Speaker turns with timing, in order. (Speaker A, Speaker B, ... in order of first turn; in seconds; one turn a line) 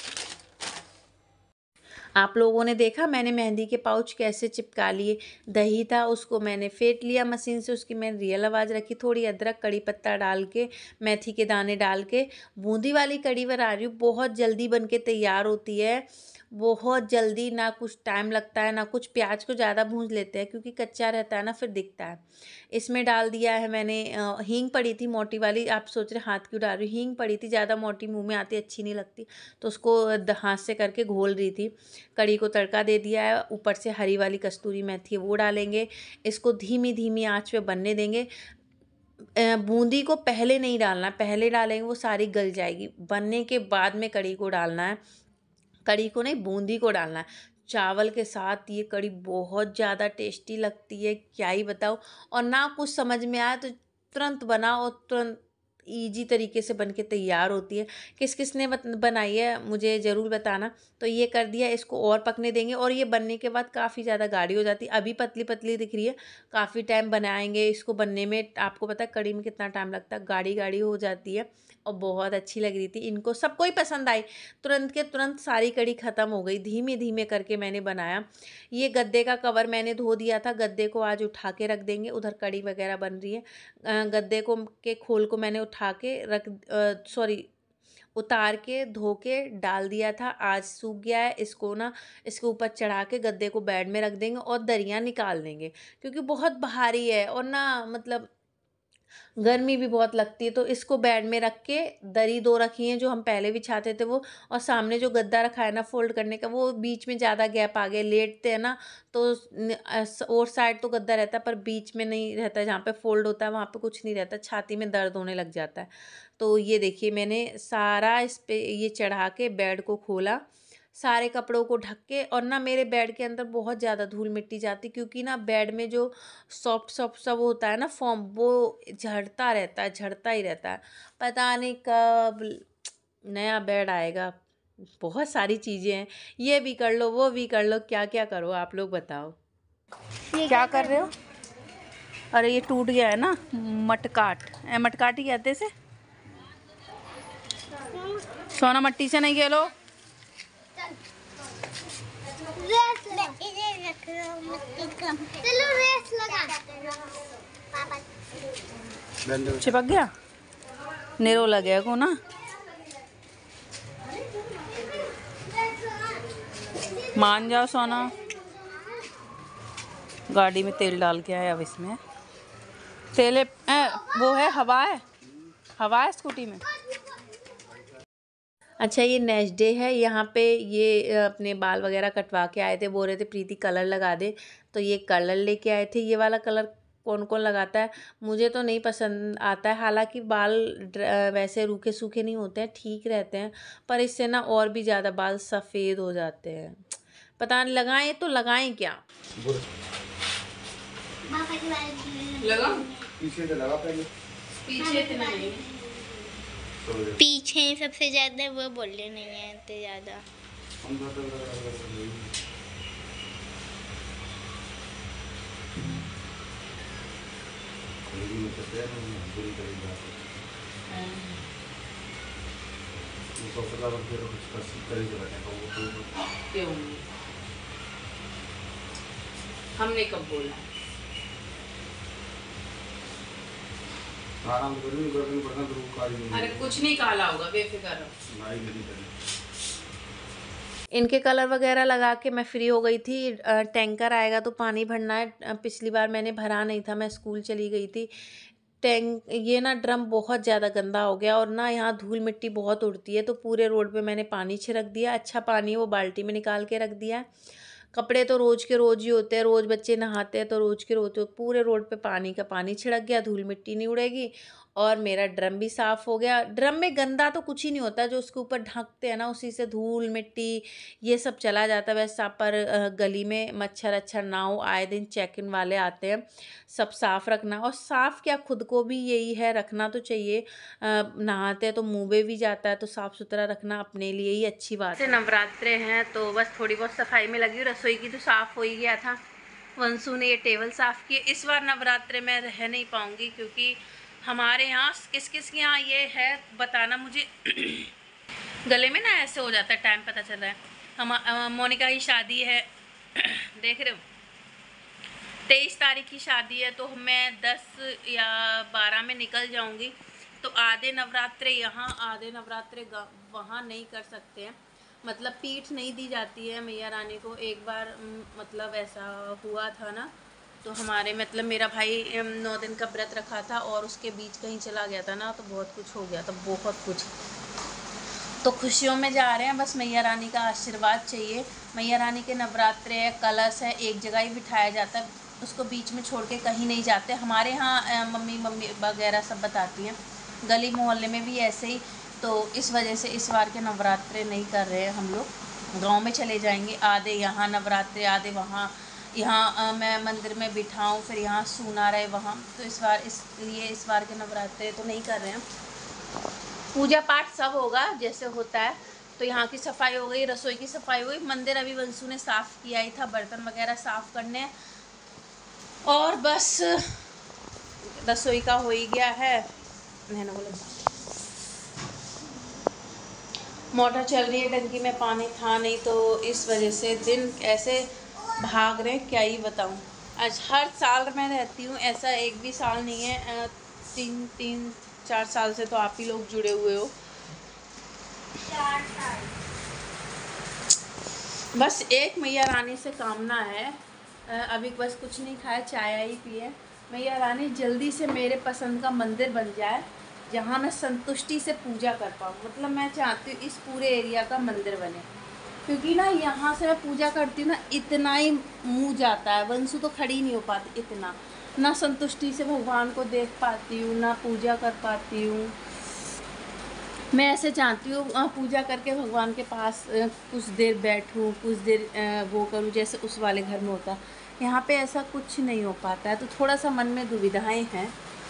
Speaker A: 2.2-38.3
Speaker A: 39.4-45.0
Speaker A: 45.9-87.5
Speaker A: 88.2-98.3
Speaker A: 99.4-120.4
Speaker A: 121.0-132.7
Speaker A: 133.3-134.4
Speaker A: 135.0-139.4
Speaker B: 140.3-141.1
Speaker A: 140.4-141.1
Speaker A: 142.3-145.7
Speaker B: 147.9-148.2
Speaker A: 148.5-149.7
Speaker B: 152.6-158.0
Speaker C: 159.2-159.7
Speaker A: 159.6-160.1
Speaker A: 161.2-162.2
Speaker B: 165.7-166.0
Speaker A: 167.1-168.1
Speaker A: 170.3-172.0
Speaker A: 173.1-175.0
Speaker B: 174.0-174.4
Speaker A: 175.8-176.6
Speaker A: 178.8-196.8
Speaker A: 197.4-199.0
Speaker C: 199.4-199.7
Speaker B: 201.3-203.1
Speaker A: 202.4-202.8
Speaker C: 203.2-204.1
Speaker A: 204.6-205.7
Speaker B: 204.8-206.1
Speaker C: 206.8-207.2
Speaker B: 207.2-210.2
Speaker C: 210.8-212.3
Speaker C: 218.1-220.3
Speaker A: 220.9-221.4
Speaker C: 223.4-226.1
Speaker A: 226.5-227.1
Speaker A: 229.8-230.7
Speaker C: 234.4-236.7
Speaker A: 236.3-238.1
Speaker C: 238.3-239.1
Speaker A: 240.9-248.1
Speaker A: 248.8-257.3
Speaker A: 257.9-289.2
Speaker A: 289.8-297.9
Speaker A: 298.7-304.0
Speaker A: 305.5-320.1
Speaker A: 320.6-327.1
Speaker A: 328.4-355.4
Speaker A: 356.7-364.5
Speaker A: 365.9-367.1
Speaker A: 367.9-369.5
Speaker A: 370.1-370.9
Speaker A: 373.7-386.9
Speaker B: 388.4-389.4
Speaker A: 391.5-405.1
Speaker A: 405.7-415.5
Speaker A: 417.1-427.9